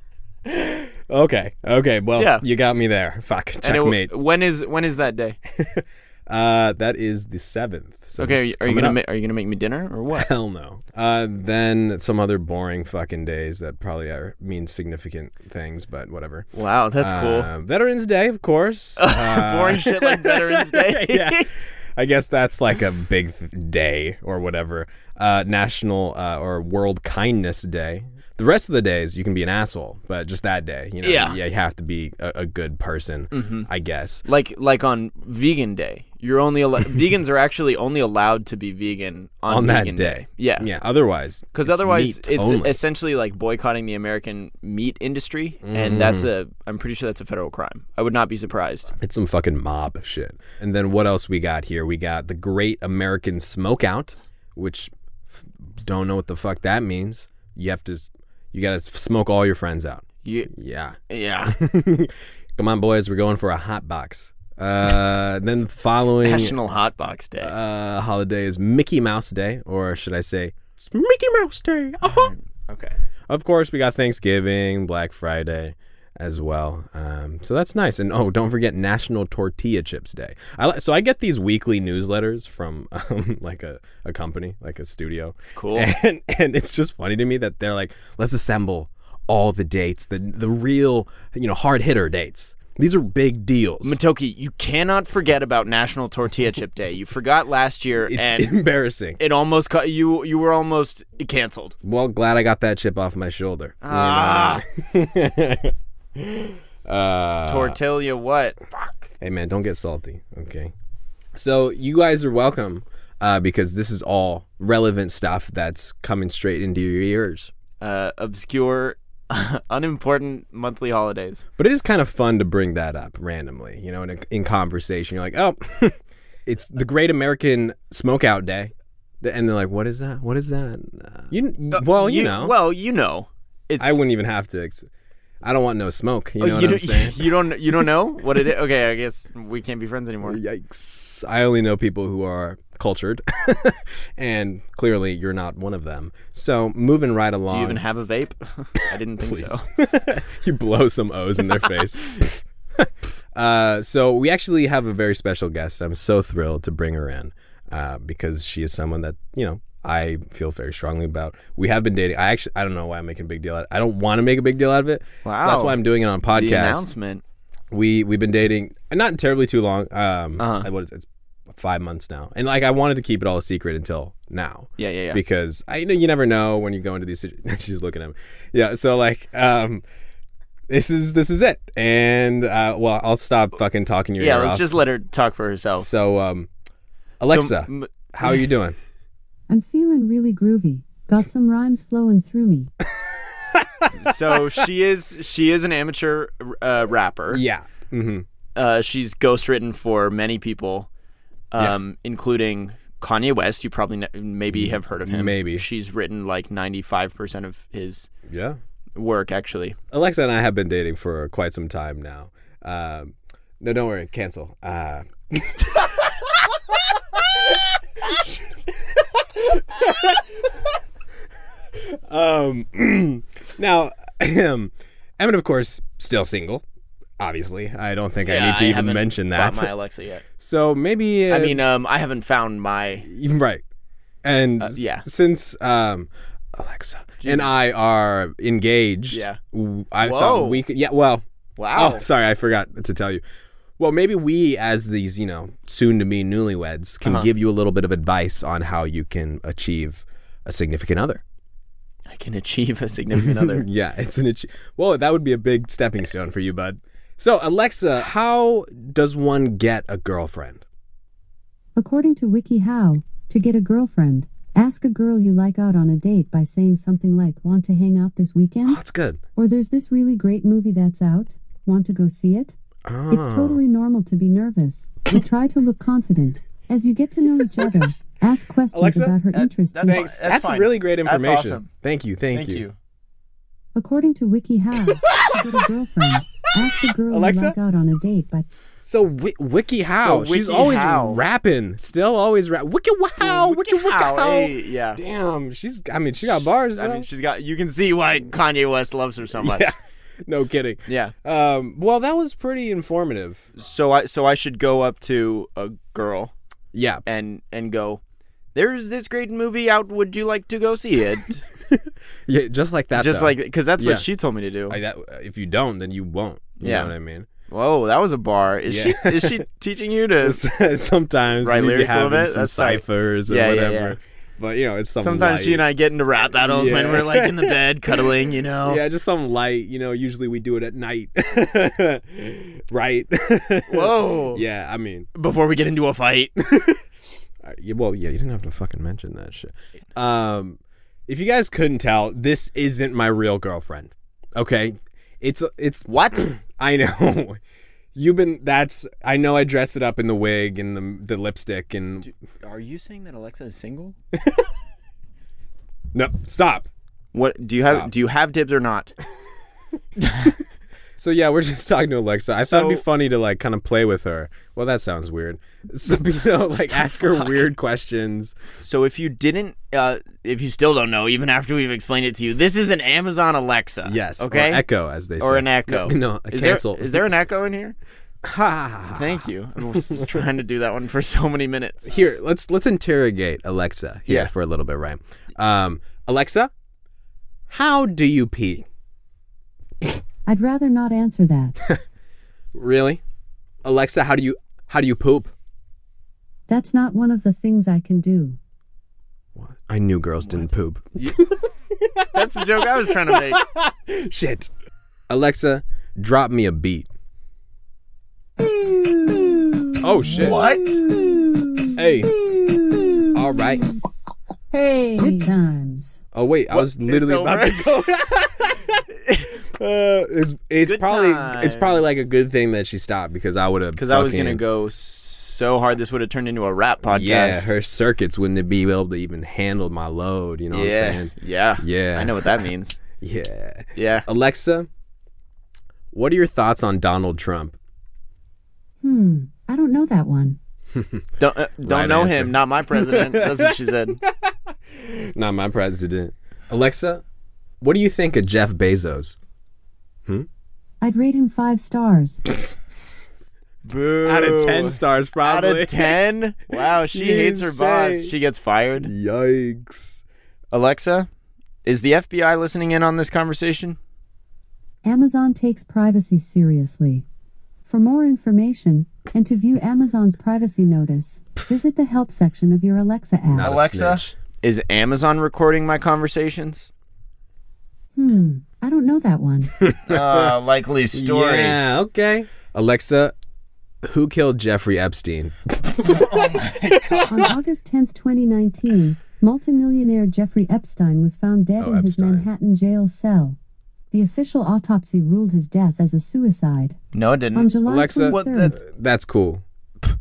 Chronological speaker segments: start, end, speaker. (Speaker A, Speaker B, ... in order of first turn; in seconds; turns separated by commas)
Speaker A: 0.5-4.1, Speaker B: 2.2-2.4, Speaker B: 3.6-5.4, Speaker A: 5.5-9.0, Speaker B: 8.2-10.3, Speaker A: 10.1-34.2, Speaker B: 16.5-17.5, Speaker B: 19.0-21.5, Speaker B: 31.0-31.4, Speaker B: 33.3-33.7, Speaker B: 34.3-40.7, Speaker A: 39.5-42.8, Speaker B: 41.5-48.9, Speaker A: 45.6-46.3, Speaker A: 49.0-66.5, Speaker B: 60.2-60.5, Speaker B: 61.1-61.6, Speaker B: 66.2-67.5, Speaker A: 67.4-72.3, Speaker B: 72.0-73.0, Speaker A: 73.3-94.0, Speaker B: 85.6-85.9, Speaker B: 93.8-98.5, Speaker A: 98.1-99.2, Speaker B: 99.2-101.8, Speaker A: 101.8-107.8, Speaker B: 103.8-104.6, Speaker B: 107.5-108.6, Speaker A: 109.2-110.7, Speaker A: 111.3-117.5, Speaker B: 117.8-121.5, Speaker A: 121.6-132.6, Speaker B: 131.7-134.0, Speaker A: 133.8-134.9, Speaker A: 135.4-137.3, Speaker B: 136.4-140.4, Speaker A: 140.2-147.8, Speaker B: 147.5-149.6, Speaker A: 149.2-166.8, Speaker B: 165.2-165.8, Speaker B: 166.3-167.2, Speaker A: 167.7-179.8, Speaker B: 170.4-170.7, Speaker B: 174.8-175.2, Speaker A: 180.7-184.7, Speaker B: 184.2-185.9, Speaker A: 185.8-186.5, Speaker A: 187.2-188.8, Speaker B: 187.3-188.4, Speaker C: 189.5-192.7, Speaker A: 193.5-193.9, Speaker B: 193.9-197.4, Speaker A: 197.3-198.3, Speaker B: 198.6-200.9, Speaker B: 201.5-208.1, Speaker A: 204.5-205.7, Speaker A: 208.3-208.6, Speaker B: 208.9-209.8, Speaker A: 209.9-220.6, Speaker A: 221.7-226.6, Speaker A: 227.2-229.7, Speaker B: 228.2-230.3, Speaker A: 230.4-231.6, Speaker B: 231.3-233.1, Speaker A: 233.0-233.6, Speaker A: 234.2-243.2, Speaker B: 234.6-235.1, Speaker B: 237.2-237.5, Speaker B: 239.1-239.4, Speaker B: 240.0-240.6, Speaker B: 241.6-242.1, Speaker A: 243.8-251.2, Speaker B: 247.0-247.3, Speaker B: 252.1-253.7, Speaker A: 253.2-260.6, Speaker C: 261.8-268.8, Speaker A: 268.7-269.2, Speaker C: 269.4-272.6, Speaker A: 272.9-273.6, Speaker C: 273.1-280.1, Speaker A: 278.7-279.2, Speaker B: 279.3-281.7, Speaker A: 279.9-282.6, Speaker B: 282.3-282.8, Speaker C: 283.8-288.5, Speaker A: 287.1-287.6, Speaker A: 288.8-297.1, Speaker B: 289.9-291.2, Speaker B: 293.2-295.0, Speaker B: 296.2-299.7, Speaker A: 299.4-303.5, Speaker B: 300.9-301.1, Speaker B: 303.6-306.3, Speaker A: 306.7-307.0, Speaker B: 307.1-308.0, Speaker B: 308.6-311.4, Speaker A: 311.7-314.1, Speaker B: 312.9-314.8, Speaker A: 314.7-317.3, Speaker B: 316.6-316.9, Speaker B: 317.5-320.4, Speaker A: 318.7-319.4, Speaker A: 320.2-325.7, Speaker B: 321.4-324.0, Speaker B: 325.0-328.8, Speaker A: 326.4-335.1, Speaker B: 333.7-334.4, Speaker B: 335.1-336.8, Speaker A: 337.4-347.4, Speaker B: 345.9-346.3, Speaker A: 347.9-352.1, Speaker B: 352.0-354.0, Speaker A: 354.2-354.5, Speaker A: 355.9-356.7, Speaker B: 357.1-358.9, Speaker A: 357.6-357.9, Speaker B: 360.0-360.4, Speaker A: 361.0-368.4, Speaker B: 362.3-362.8, Speaker B: 366.9-367.4, Speaker B: 368.6-374.7, Speaker A: 373.9-377.1, Speaker B: 375.2-377.8, Speaker A: 378.2-379.3, Speaker B: 378.9-381.9, Speaker A: 381.9-386.5, Speaker A: 387.5-388.7, Speaker C: 390.3-391.6, Speaker A: 392.5-393.0, Speaker A: 393.6-395.3, Speaker C: 396.5-398.4, Speaker A: 399.4-404.5, Speaker B: 402.1-403.4, Speaker A: 405.1-406.9, Speaker B: 409.5-411.2, Speaker A: 409.8-410.5, Speaker A: 411.8-412.1, Speaker B: 412.5-413.1, Speaker A: 413.1-413.7, Speaker C: 414.5-416.0, Speaker A: 416.1-418.8, Speaker B: 416.5-417.7, Speaker A: 419.6-424.4, Speaker B: 420.6-422.0, Speaker B: 423.8-427.5, Speaker A: 426.9-432.3, Speaker B: 430.5-432.8, Speaker A: 433.0-434.7, Speaker B: 433.8-434.1, Speaker A: 435.9-437.6, Speaker C: 438.8-440.4, Speaker A: 440.7-441.1, Speaker B: 441.2-444.0, Speaker A: 441.6-443.6, Speaker A: 444.1-447.0, Speaker A: 447.6-449.2, Speaker C: 450.8-452.2, Speaker B: 453.6-458.9, Speaker A: 454.0-456.0, Speaker A: 456.9-458.1, Speaker A: 458.8-460.0, Speaker B: 460.5-461.1, Speaker B: 461.6-463.8, Speaker C: 464.8-467.1, Speaker C: 467.7-473.5, Speaker A: 473.3-474.1, Speaker B: 473.4-476.7, Speaker C: 478.0-479.5, Speaker A: 479.6-480.3, Speaker B: 479.9-481.6, Speaker A: 480.9-483.1, Speaker A: 483.8-486.0, Speaker B: 485.8-487.3, Speaker C: 487.1-493.4, Speaker A: 491.6-492.3, Speaker C: 493.9-496.8, Speaker B: 496.9-498.6, Speaker C: 497.4-498.6, Speaker A: 497.7-499.4